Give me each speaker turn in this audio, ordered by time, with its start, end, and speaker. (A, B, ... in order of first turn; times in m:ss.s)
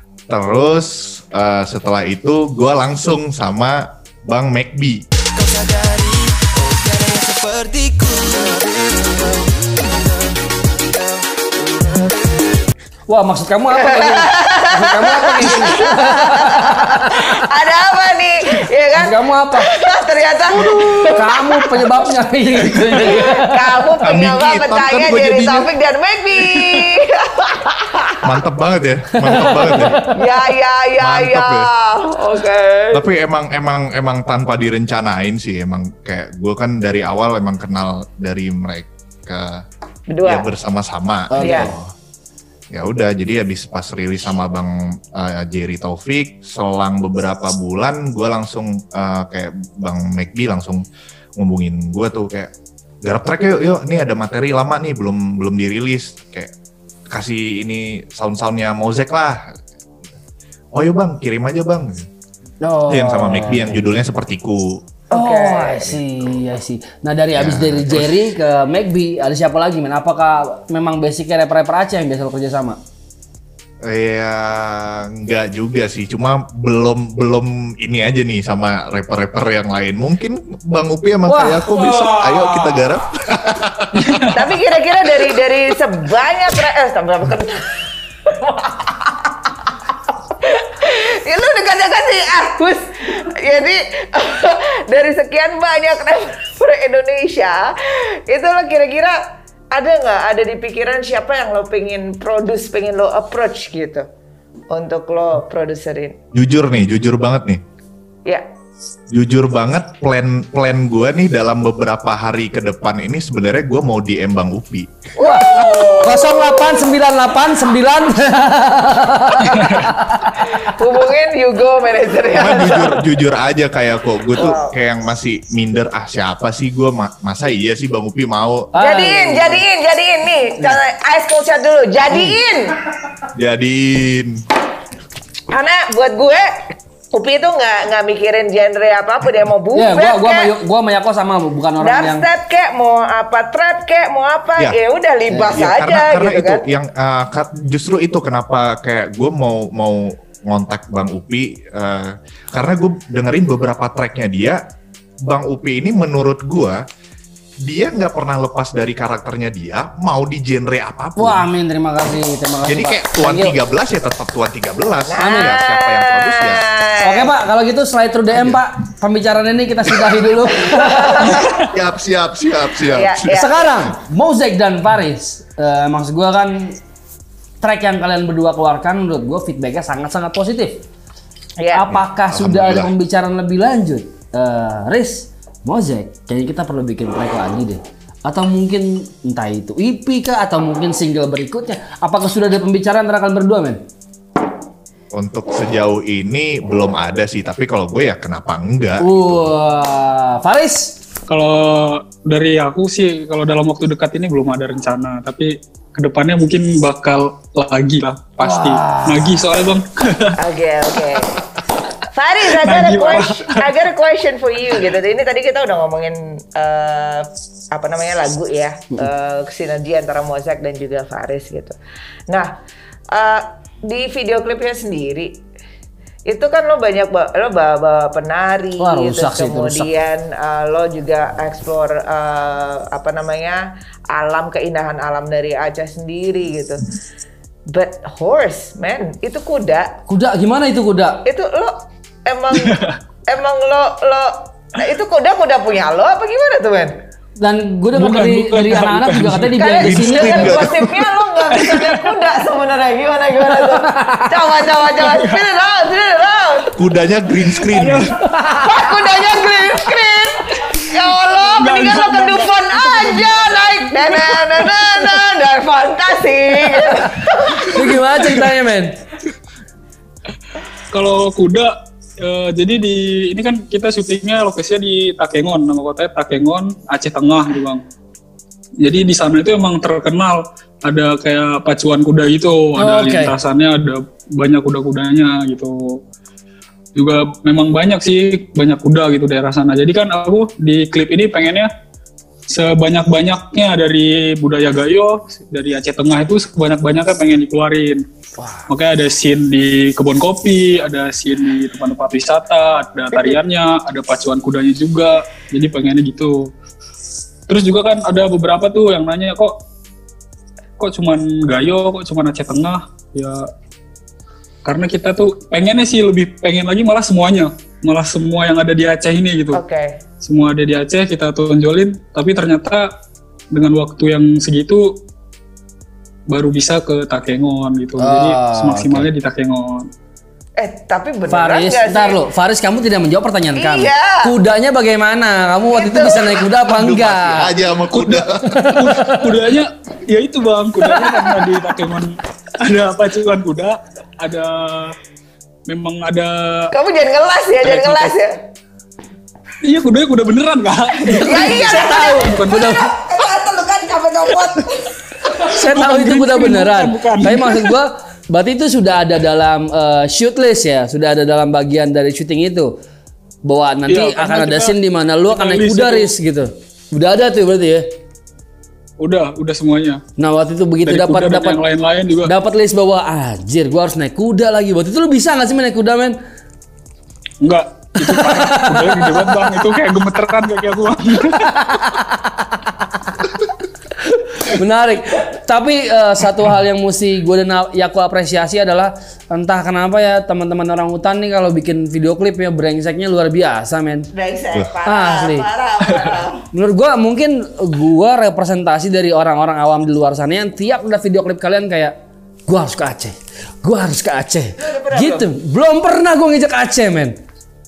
0:00.3-0:05.0 A
0:05.4-0:12.5 B
0:13.1-0:17.4 C
0:13.7-0:21.8 D
0:19.0-0:19.7 C
0:20.6-0:23.7 C
0:22.9-0:28.2 D
0:24.0-0:25.7 A
0:28.2-0:30.0 A
0:29.2-0:30.2 C
0:30.1-0:33.0 D
0:31.0-0:31.7 A
0:32.9-0:39.6 A
0:40.1-0:40.5 D
0:40.2-0:41.9 A
0:41.3-0:41.7 C
0:41.4-0:41.7 D
0:42.7-0:50.8 A
0:51.4-0:52.5 A
0:53.0-0:56.5 A
0:57.1-0:59.4 A
1:00.7-1:02.1 A
1:02.6-1:03.8 C
1:02.9-1:04.8 A
1:05.1-1:06.0 D
1:05.1-1:12.8 C
1:07.3-1:08.2 A
1:13.8-1:24.2 A
1:21.3-1:21.6 C
1:24.0-1:24.3 E
1:24.3-1:27.7 D
1:28.2-1:29.3 D
1:30.1-1:39.2 D
1:39.7-1:44.1 D
1:44.7-1:46.2 D
1:46.3-1:47.6 A
1:49.1-1:54.9 A
1:55.2-1:56.6 D
1:55.2-2:00.5 C
2:00.3-2:03.0 D
2:02.3-2:08.7 A
2:04.3-2:04.8 D
2:08.7-2:09.6 C
2:08.8-2:12.8 D
2:12.1-2:12.4 A
2:13.3-2:14.4 A
2:15.5-2:20.5 D
2:19.7-2:22.2 C
2:21.8-2:26.6 D
2:25.3-2:25.6 C
2:25.4-2:34.6 A
2:35.2-2:36.8 A
2:37.6-2:41.4 A
2:41.2-2:43.6 C
2:42.6-2:46.7 A
2:45.1-2:47.3 D
2:45.2-2:45.5 C
2:47.0-2:51.4 C
2:48.3-2:48.6 A
2:50.6-2:51.7 D
2:51.4-2:53.2 A
2:52.8-2:53.7 D
2:53.3-2:56.8 C
2:57.6-3:00.8 C
3:01.6-3:01.9 D
3:01.7-3:13.8 C
3:01.9-3:02.9 A
3:15.1-3:19.5 A
3:19.0-3:21.0 C
3:21.3-3:30.4 E
3:28.4-3:29.4 C
3:30.4-3:31.3 D
3:32.1-3:41.8 D
3:32.5-3:33.6 E
3:42.3-3:42.5 D
3:43.1-3:45.4 D
3:46.3-3:56.9 D
3:48.8-3:49.9 C
3:57.7-3:59.9 D
4:00.1-4:01.2 C
4:01.2-4:01.7 D
4:02.2-4:06.9 D
4:02.6-4:02.9 E
4:07.4-4:10.7 C
4:08.0-4:09.5 E
4:09.6-4:16.7 D
4:09.8-4:11.1 A
4:11.5-4:12.1 E
4:13.5-4:14.4 C
4:15.0-4:15.4 E
4:16.8-4:18.0 A
4:17.6-4:18.1 E
4:18.2-4:18.9 C
4:18.5-4:28.4 D
4:21.4-4:24.7 E
4:27.7-4:29.0 C
4:30.9-4:37.8 E
4:38.8-4:46.0 E
4:42.8-4:43.3 C
4:46.9-4:51.7 E
4:52.5-4:58.0 E
4:58.4-4:58.7 C
4:58.7-5:06.5 E
5:07.5-5:09.6 E
5:10.8-5:13.5 E
5:14.6-5:19.6 E
5:19.5-5:20.0 D
5:20.2-5:22.9 E
5:23.5-5:25.0 E
5:26.3-5:29.9 E
5:28.0-5:29.0 C
5:30.6-5:32.2 D
5:31.3-5:37.5 C
5:33.6-5:34.3 D
5:35.7-5:36.5 D
5:36.6-5:38.8 A
5:37.9-5:45.0 E
5:38.4-5:39.3 C
5:45.7-5:46.7 E
5:46.7-5:48.3 D
5:47.6-5:48.2 E
5:49.6-5:52.7 E
5:51.1-5:52.9 C
5:51.2-5:54.9 D
5:55.3-5:57.7 E
5:55.4-6:02.7 C
6:03.4-6:07.9 C
6:03.9-6:04.8 E
6:05.3-6:06.1 E
6:09.0-6:10.0 E
6:10.2-6:11.6 C
6:10.8-6:12.3 E
6:12.2-6:16.2 C
6:17.4-6:21.5 E
6:18.0-6:19.3 C
6:21.3-6:22.5 C
6:24.3-6:34.1 C
6:34.1-6:36.4 D
6:34.8-6:35.4 C
6:36.5-6:41.9 C
6:42.5-6:47.2 C
6:44.6-6:45.2 D